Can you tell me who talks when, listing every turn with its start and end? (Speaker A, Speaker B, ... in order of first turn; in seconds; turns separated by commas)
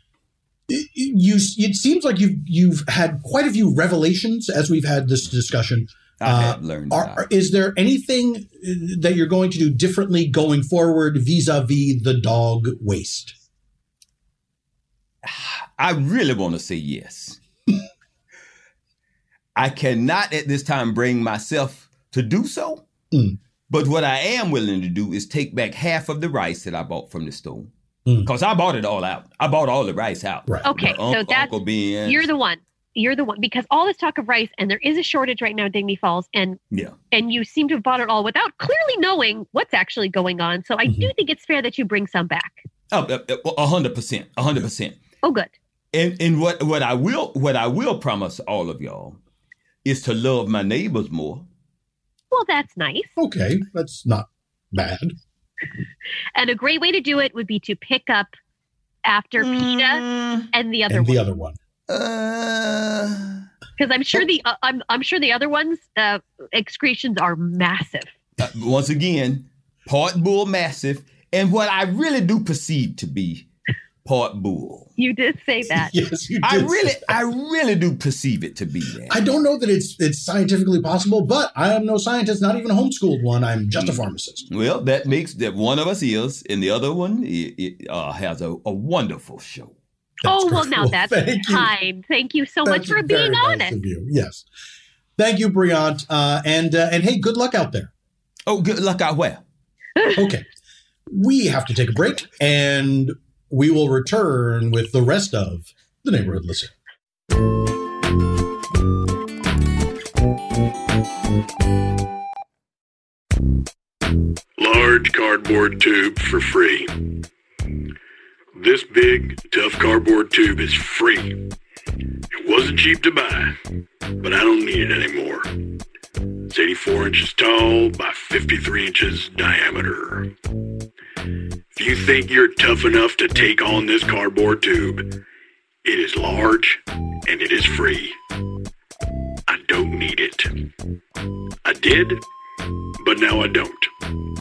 Speaker A: 0.7-13.3, Speaker B: 6.2-7.2, Speaker B: 15.2-17.4, Speaker B: 19.6-22.8, Speaker A: 23.1-23.4, Speaker B: 23.7-27.7, Speaker B: 28.2-32.3, Speaker C: 30.6-36.6, Speaker C: 37.1-42.6, Speaker B: 42.9-45.0, Speaker C: 45.2-45.5, Speaker B: 45.9-49.2, Speaker B: 49.8-51.5, Speaker C: 52.3-53.1, Speaker A: 53.2-55.1, Speaker C: 56.3-58.3, Speaker C: 59.0-61.2, Speaker B: 59.4-60.5, Speaker A: 60.9-61.6, Speaker B: 61.9-63.4, Speaker C: 63.8-68.1, Speaker B: 68.4-73.5, Speaker B: 74.0-74.9, Speaker C: 75.0-75.9, Speaker A: 75.7-77.2, Speaker B: 76.4-79.2, Speaker A: 79.1-84.4, Speaker B: 83.8-89.7, Speaker A: 90.2-91.7, Speaker C: 90.2-93.8, Speaker A: 92.6-94.5, Speaker A: 95.2-97.9, Speaker B: 98.5-99.4, Speaker C: 100.0-100.3, Speaker A: 100.1-100.4, Speaker A: 101.1-106.7, Speaker D: 114.6-117.0, Speaker D: 118.5-121.5, Speaker D: 122.3-123.5, Speaker D: 124.2-125.5, Speaker D: 126.5-130.3, Speaker D: 131.7-135.1, Speaker D: 135.8-138.2, Speaker D: 139.5-140.6, Speaker D: 141.6-142.2, Speaker D: 143.0-143.9